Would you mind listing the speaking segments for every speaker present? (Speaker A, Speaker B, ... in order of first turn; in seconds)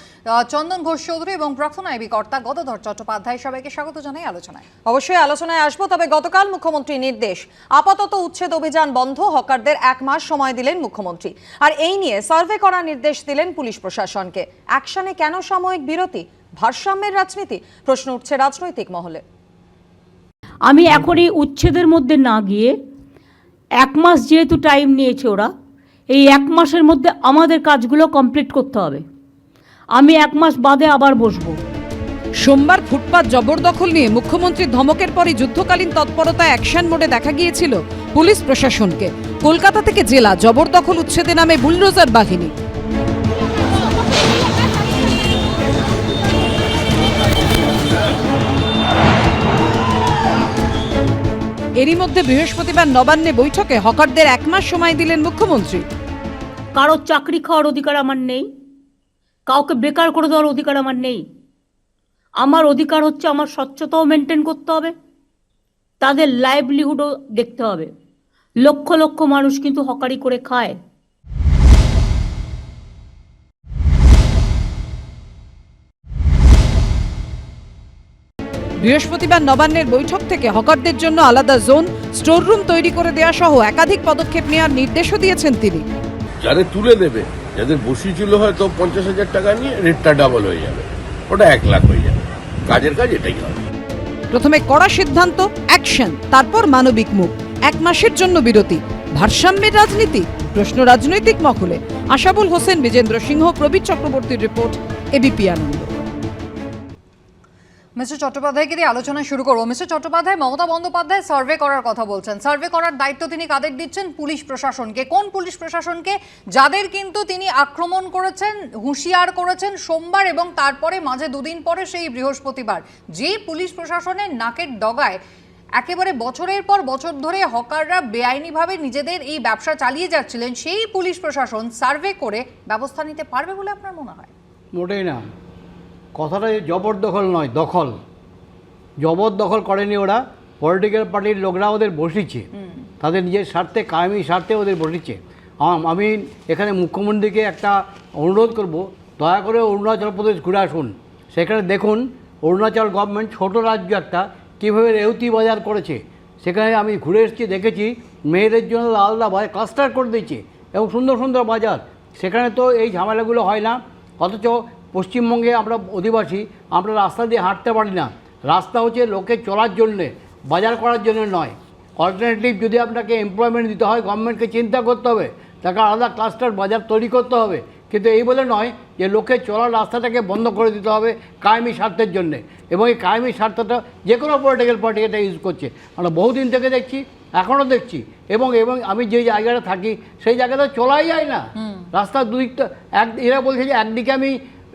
Speaker A: 0.4-4.7, 108.0-125.2, 125.8-134.3
Speaker B: 4.9-19.2
Speaker C: 20.7-22.7, 23.8-25.5, 26.1-29.0, 30.0-31.6, 56.8-58.5, 59.5-61.2, 62.4-64.9, 66.0-67.9, 68.6-70.8
Speaker D: 32.4-42.5, 51.8-55.9, 78.8-85.8, 94.3-106.0
Speaker E: 86.4-93.6
Speaker F: 134.7-135.2, 136.2-138.0, 139.0-142.5, 143.0-191.4, 191.9-194.4